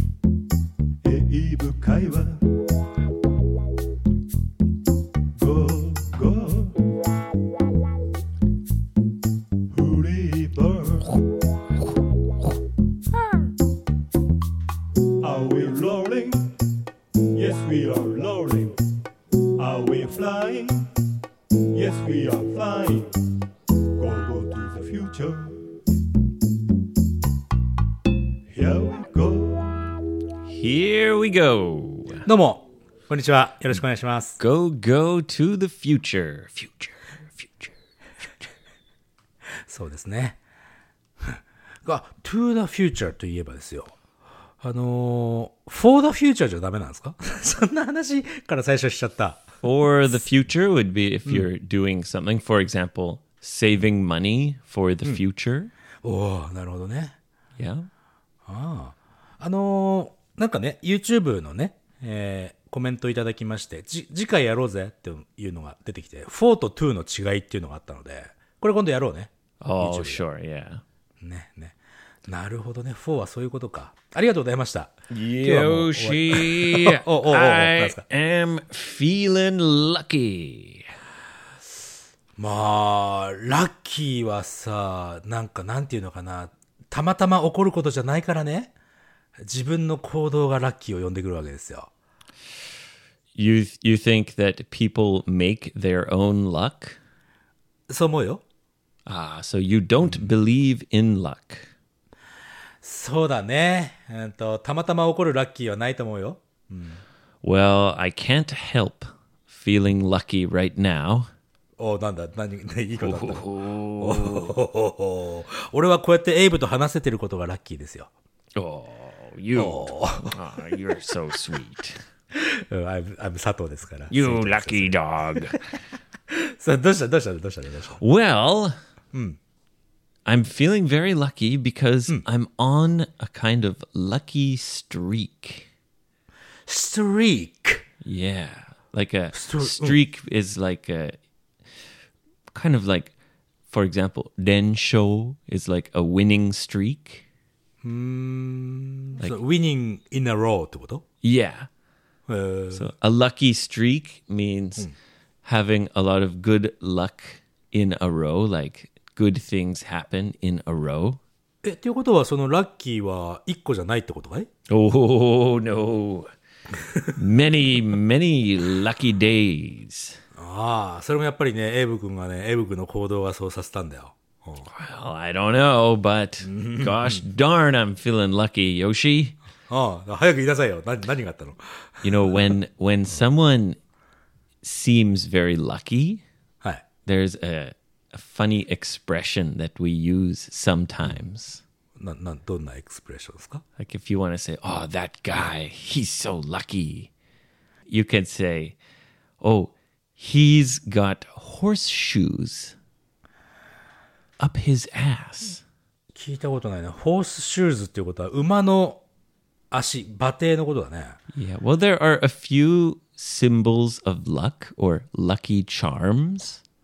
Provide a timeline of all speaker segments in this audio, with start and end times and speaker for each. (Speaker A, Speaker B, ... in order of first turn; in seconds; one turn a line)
Speaker A: 1.0-2.5
Speaker A: 5.3-6.8
Speaker A: 9.7-11.2
Speaker A: 15.2-16.5
Speaker A: 17.3-18.7
Speaker A: 19.6-20.9
Speaker A: 21.7-23.1
Speaker A: 23.9-25.8
Speaker A: 28.5-29.9
Speaker B: 30.4-32.3
Speaker C: 32.2-34.4
Speaker B: 34.4-37.7
Speaker C: 39.6-40.4
Speaker C: 41.2-43.9
Speaker C: 44.6-49.5
Speaker B: 49.6-55.7
Speaker C: 56.0-57.2
Speaker B: 57.6-57.9
Speaker C: 58.5-70.2
Speaker B: 69.6-70.8
Speaker C: 71.2-78.0
Speaker B: 75.1-80.9
Speaker C: 82.4-88.7
Speaker C: 89.4-91.9
Speaker B: 93.3-97.0
Speaker C: 97.9-98.4
Speaker B: 99.1-101.7
Speaker C: 100.0-100.3
Speaker C: 102.8-107.0
Speaker B: 107.4-111.3
Speaker C: 111.8-118.1
Speaker B: 113.0-114.5
Speaker B: 118.5-122.0
Speaker C: 119.5-120.4
Speaker C: 122.3-125.6
Speaker B: 124.1-125.6
Speaker C: 126.3-128.0
Speaker B: 128.0-128.7
Speaker C: 129.1-129.4
Speaker B: 130.2-135.7
Speaker C: 136.7-137.8
Speaker B: 138.0-141.2
Speaker C: 139.3-140.0
Speaker B: 142.5-143.1
Speaker B: 143.7-147.2
Speaker C: 147.8-151.0
Speaker B: 151.2-151.7
Speaker C: 152.3-152.9
Speaker B: 152.7-154.9
Speaker B: 155.4-161.2
Speaker C: 161.6-164.5
Speaker B: 164.7-166.3
Speaker C: 166.8-167.1
Speaker B: 167.1-170.2
Speaker C: 170.3-174.7
Speaker B: 174.6-179.3
Speaker C: 176.5-177.2
Speaker C: 179.7-182.4
Speaker B: 182.0-183.8
Speaker B: 184.6-186.2
Speaker B: 187.1-191.6
Speaker C: 191.9-193.6
Speaker B: 193.8-197.1
Speaker B: 197.9-198.8
Speaker B: 199.4-202.8
Speaker B: 204.4-205.6
Speaker C: 206.1-209.0
Speaker C: 209.7-211.2
Speaker B: 211.3-216.6